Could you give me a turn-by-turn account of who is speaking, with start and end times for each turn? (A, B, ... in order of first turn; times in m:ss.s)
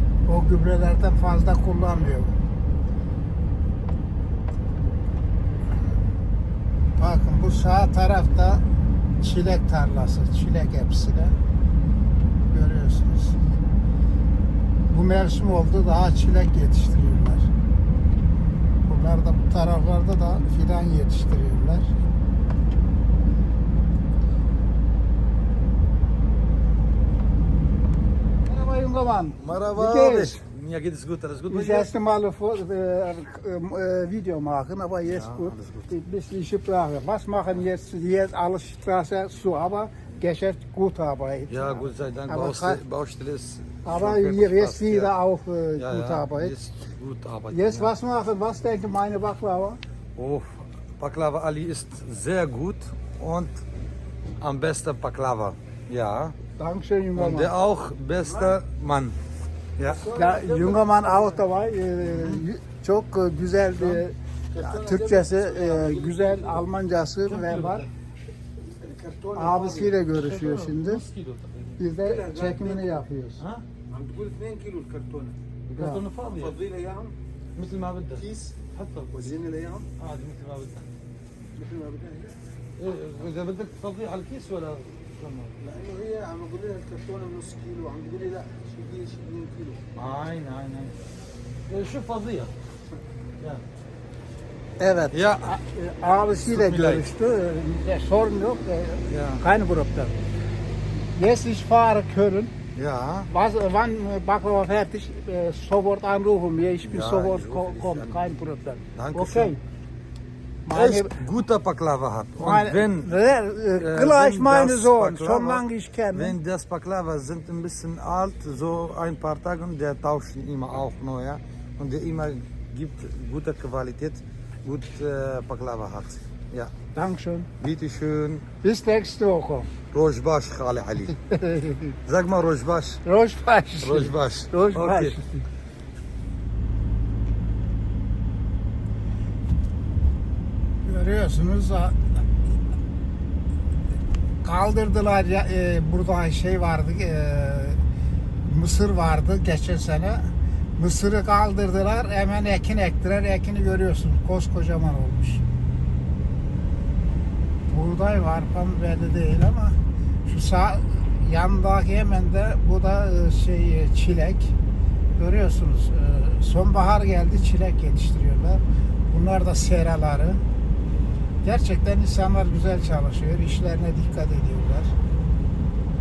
0:00.2-0:02.4 A
0:07.0-0:08.6 A
0:09.2-0:11.4 A
0:12.5-0:13.4 A
0:14.9-0:17.5 A
0:18.8-0:21.9 A
0:28.4-0:30.4 A
0:29.4-0:31.9 B
0:31.5-0:42.8 A
0:35.0-0:35.9 B
0:41.5-0:45.1 B
0:43.8-0:46.5 A
0:45.8-0:47.9 B
0:47.5-0:49.8 A
0:50.2-0:53.5 B
0:54.4-0:56.4 B
0:56.6-0:57.5 A
0:57.1-0:59.2 B
0:58.2-0:58.6 C
0:59.8-1:00.0 B
0:59.8-1:01.4 C
1:00.1-1:07.9 A
1:02.0-1:02.4 B
1:04.5-1:06.6 C
1:07.2-1:07.9 B
1:08.8-1:10.0 C
1:09.3-1:11.0 A
1:10.1-1:11.8 B
1:11.8-1:13.4 A
1:12.0-1:13.0 C
1:13.4-1:13.6 B
1:13.9-1:15.4 C
1:15.7-1:16.6 B
1:15.8-1:16.0 A
1:16.2-1:17.1 C
1:17.5-1:18.2 B
1:18.2-1:19.9 C
1:20.0-1:20.8 B
1:21.6-1:22.4 C
1:22.8-1:25.6 B
1:25.6-1:29.8 C
1:29.9-1:30.9 B
1:31.7-1:32.5 B
1:34.8-1:40.2 A
1:35.1-1:35.6 B
1:36.4-1:37.1 B
1:39.0-1:39.4 B
1:41.1-1:42.5 A
1:42.7-1:43.3 B
1:43.3-1:49.6 A
1:46.8-1:48.2 B
1:48.9-1:49.6 B
1:50.6-1:51.2 A
1:50.7-1:53.2 B
1:52.4-1:56.4 A
1:53.8-2:06.7 B
2:06.9-2:07.5 A
2:07.6-2:08.5 B
2:08.6-2:09.7 A
2:09.9-2:11.2 B
2:11.2-2:12.0 A
2:12.0-2:13.0 B
2:13.0-2:15.4 A
2:13.8-2:15.2 B
2:20.8-2:22.0 A
2:24.4-2:27.8 A
2:28.4-2:35.4 A
2:37.7-2:44.6 A
2:45.2-2:50.4 A
2:51.4-2:54.9 A